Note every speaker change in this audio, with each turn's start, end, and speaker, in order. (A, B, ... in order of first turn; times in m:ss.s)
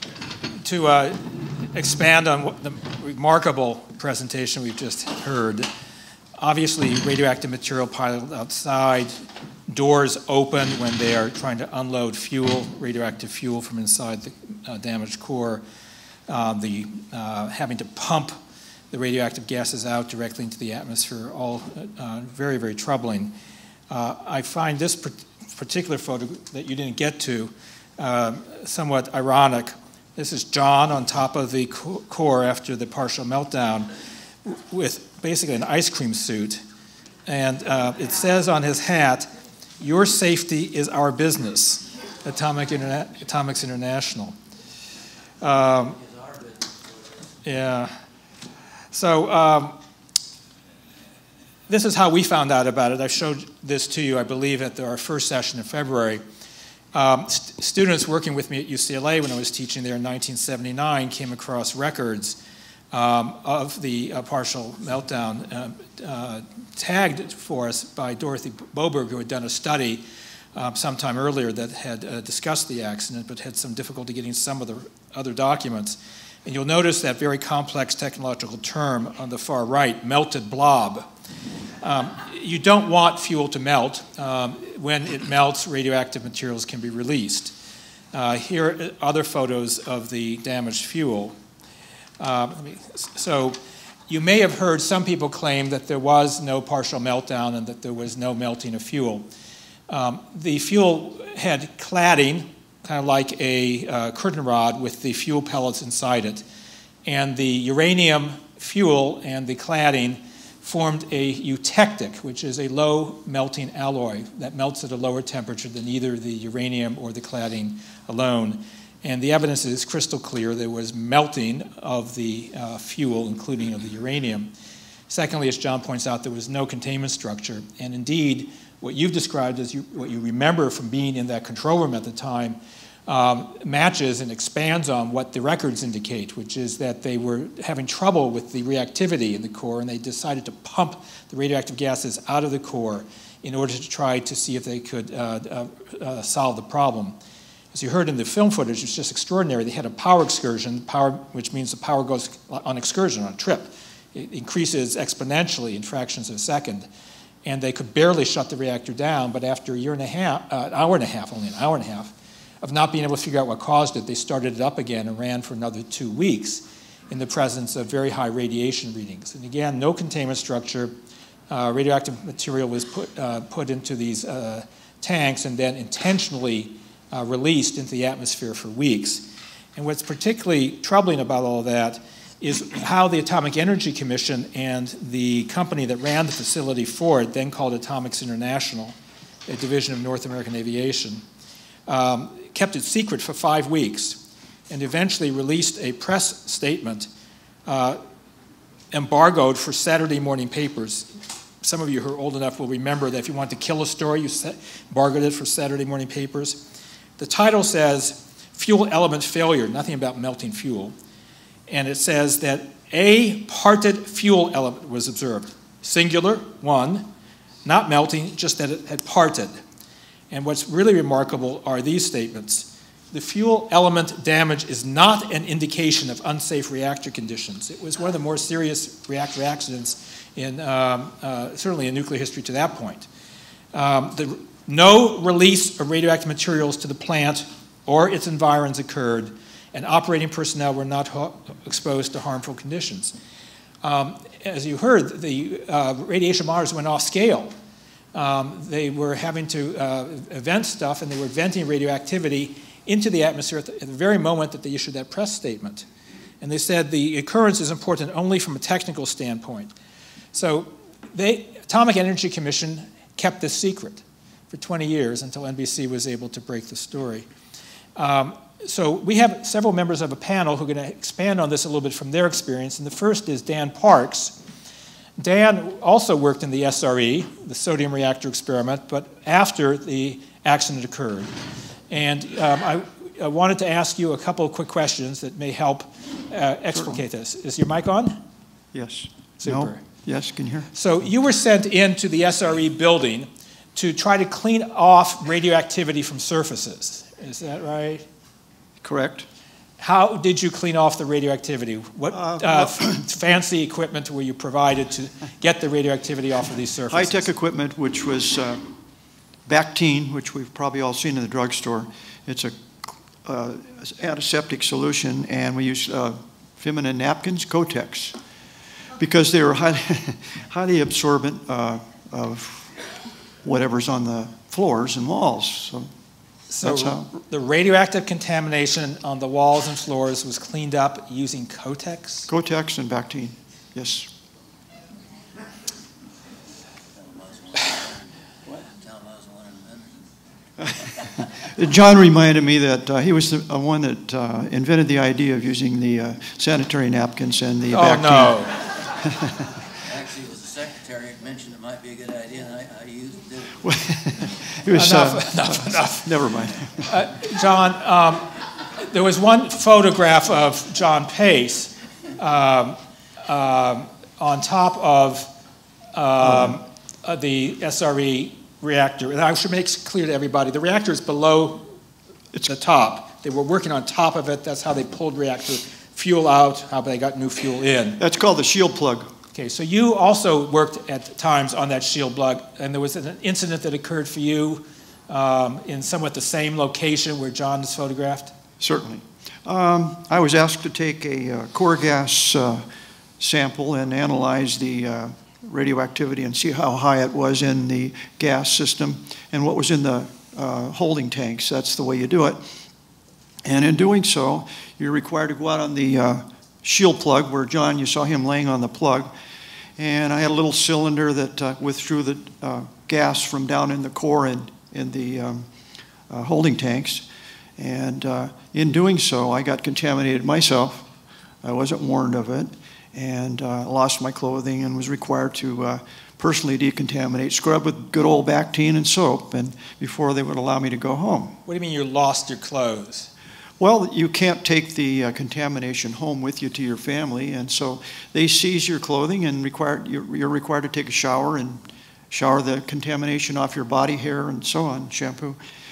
0:00.6-0:05.7 A
0:06.4-0:09.1 A
0:09.7-0:15.6 A
0:16.3-0:18.4 A
0:18.9-0:23.3 A
0:23.9-0:33.9 A
0:34.4-0:36.6 A
0:37.3-0:39.3 A
0:39.8-0:44.3 A
0:45.4-0:46.0 A
0:47.4-0:47.9 A
0:48.9-0:49.8 A
0:51.7-0:56.2 A
0:56.9-1:02.4 A
1:02.9-1:10.0 A
1:10.5-1:21.1 A
1:21.8-1:27.5 A
1:28.1-1:31.3 A
1:32.2-1:33.6 A
1:34.1-1:39.3 A
1:39.9-1:46.4 A
1:47.0-2:04.5 A
2:05.1-2:27.1 A
2:27.7-2:36.8 A
2:37.4-2:42.1 A
2:42.6-2:50.9 A
2:51.5-3:08.9 A
3:09.5-3:11.2 A
3:11.9-3:14.2 A
3:14.7-3:17.1 A
3:17.6-3:18.0 A
3:18.9-3:21.1 A
3:21.6-3:26.6 A
3:27.2-3:30.9 A
3:31.7-3:37.1 A
3:37.6-3:39.5 A
3:40.3-3:53.1 A
3:53.7-4:03.1 A
4:03.8-4:07.5 A
4:08.1-4:15.8 A
4:16.4-4:19.7 A
4:20.3-4:27.2 A
4:28.0-4:34.3 A
4:35.2-4:41.3 A
4:41.9-4:48.2 A
4:48.7-4:50.7 B
4:49.4-4:49.8 A
4:50.7-4:58.0 A
4:58.8-4:59.3 B
4:59.8-5:07.3 A
5:02.1-5:03.1 B
5:06.9-5:08.6 B
5:09.4-5:18.2 B
5:19.0-5:22.7 B
5:23.4-5:25.9 B
5:26.5-5:32.3 A
5:26.6-5:27.1 B
5:32.3-5:34.1 B
5:37.0-5:38.0 C
5:38.6-5:39.9 C
5:40.6-5:40.9 B
5:41.5-5:48.5 B
5:47.7-5:48.6 A
5:49.0-5:49.3 B
5:49.8-5:53.6 C
5:53.6-5:56.9 B
5:54.7-5:56.1 A
5:56.8-5:58.3 A
5:58.8-6:05.3 A
6:05.9-6:11.7 A
6:06.2-6:06.6 B
6:12.4-6:18.0 A
6:18.0-6:19.1 B
6:19.3-6:28.3 A
6:28.6-6:32.6 B
6:33.2-6:42.4 B
6:43.4-6:49.1 B
6:49.8-6:55.5 B
6:56.1-6:57.0 B
6:57.6-7:00.8 B
7:01.4-7:11.4 B
7:11.4-7:13.1 A
7:13.6-7:25.4 B